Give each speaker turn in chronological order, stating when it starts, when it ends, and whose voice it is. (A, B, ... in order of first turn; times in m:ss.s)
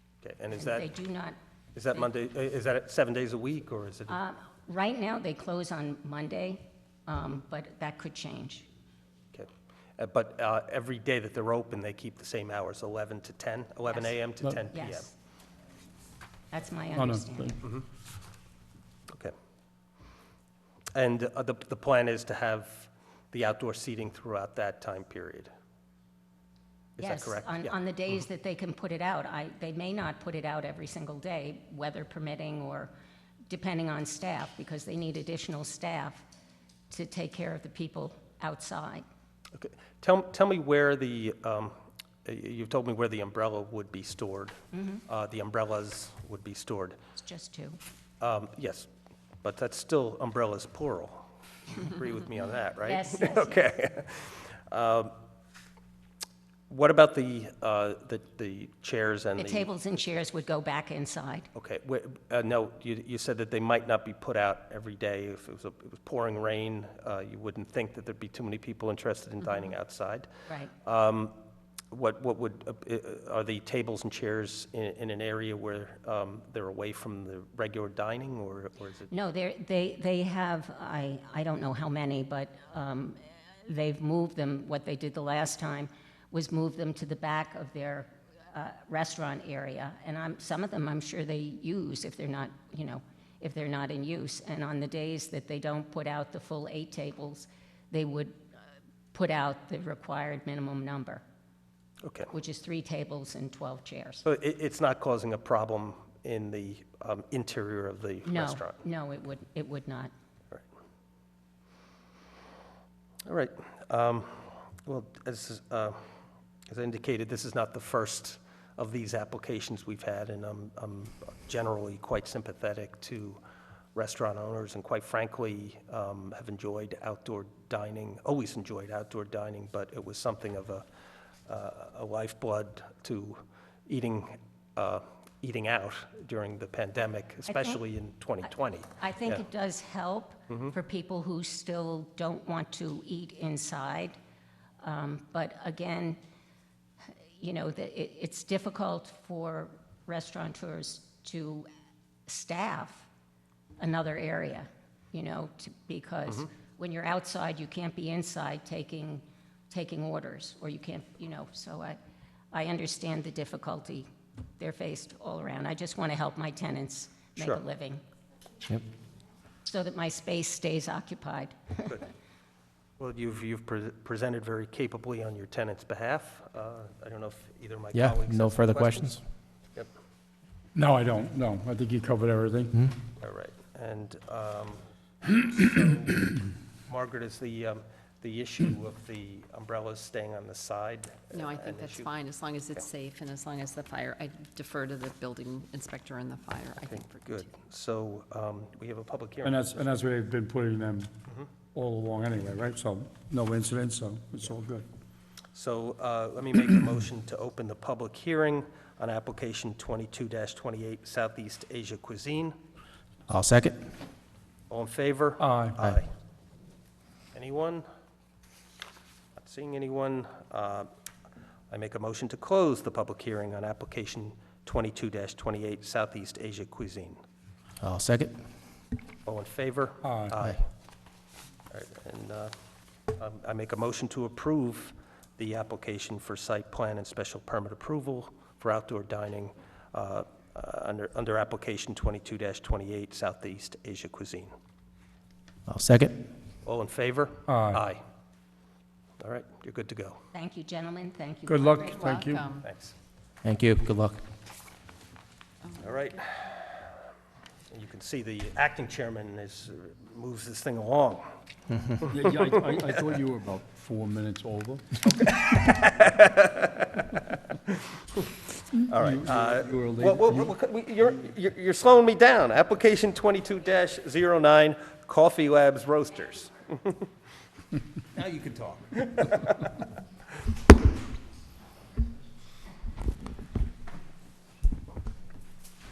0:00.2-0:00.9 A
0:00.6-0:01.4 B
0:01.7-0:04.2 A
0:04.1-0:08.6 B
0:09.3-0:15.1 A
0:13.9-0:15.1 B
0:16.5-0:17.6 B
0:17.0-0:17.6 C
0:20.9-0:25.5 A
0:27.0-0:27.8 A
0:27.0-0:32.9 B
0:33.5-0:36.2 B
0:36.9-0:39.0 B
0:39.5-0:44.6 A
0:44.7-0:45.0 B
0:45.1-0:47.0 A
0:47.2-0:47.8 B
0:48.2-0:48.9 A
0:49.4-0:55.1 A
0:52.8-0:53.7 B
0:56.7-0:59.7 A
0:59.4-1:01.5 B
1:01.5-1:10.3 A
1:10.5-1:10.7 B
1:10.8-1:11.3 A
1:11.9-1:19.1 A
1:19.1-1:38.4 B
1:39.1-1:41.2 B
1:42.0-1:42.3 A
1:42.3-1:44.2 B
1:44.2-1:48.8 A
1:48.2-1:50.1 B
1:53.2-1:56.0 A
1:56.7-2:03.4 A
2:03.9-2:10.8 A
2:11.5-2:19.4 A
2:17.5-2:17.8 B
2:19.0-2:24.2 B
2:20.5-2:20.7 A
2:24.8-2:26.2 B
2:27.0-2:31.7 B
2:32.3-2:33.0 B
2:33.8-2:42.0 B
2:42.5-2:44.1 B
2:44.6-2:48.0 B
2:47.4-2:47.6 A
2:49.6-2:51.9 B
2:53.0-2:59.2 A
2:57.9-2:59.2 D
3:00.8-3:02.9 C
3:03.2-3:04.8 A
3:05.5-3:06.3 A
3:06.9-3:12.1 A
3:11.3-3:17.4 E
3:16.8-3:19.7 A
3:19.4-3:21.1 C
3:21.7-3:24.8 C
3:25.5-3:32.6 A
3:33.3-3:33.8 D
3:34.7-3:36.1 A
3:35.4-3:35.8 C
3:37.3-3:37.8 A
3:39.4-3:40.9 A
3:41.7-3:47.2 A
3:47.8-3:48.4 D
3:49.2-3:50.6 A
3:50.0-3:50.4 C
3:51.7-3:52.5 A
3:53.1-4:04.5 A
4:05.7-4:06.2 D
4:06.6-4:08.0 A
4:07.5-4:07.8 C
4:09.2-4:10.2 A
4:10.3-4:12.2 B
4:11.5-4:12.5 C
4:11.9-4:12.7 E
4:12.6-4:12.9 A
4:13.4-4:14.2 D
4:15.8-4:16.9 A
4:17.7-4:21.3 A
4:22.0-4:25.0 C
4:25.0-4:27.1 A
4:28.9-4:37.0 A
4:28.9-4:30.5 C
4:38.1-4:39.7 A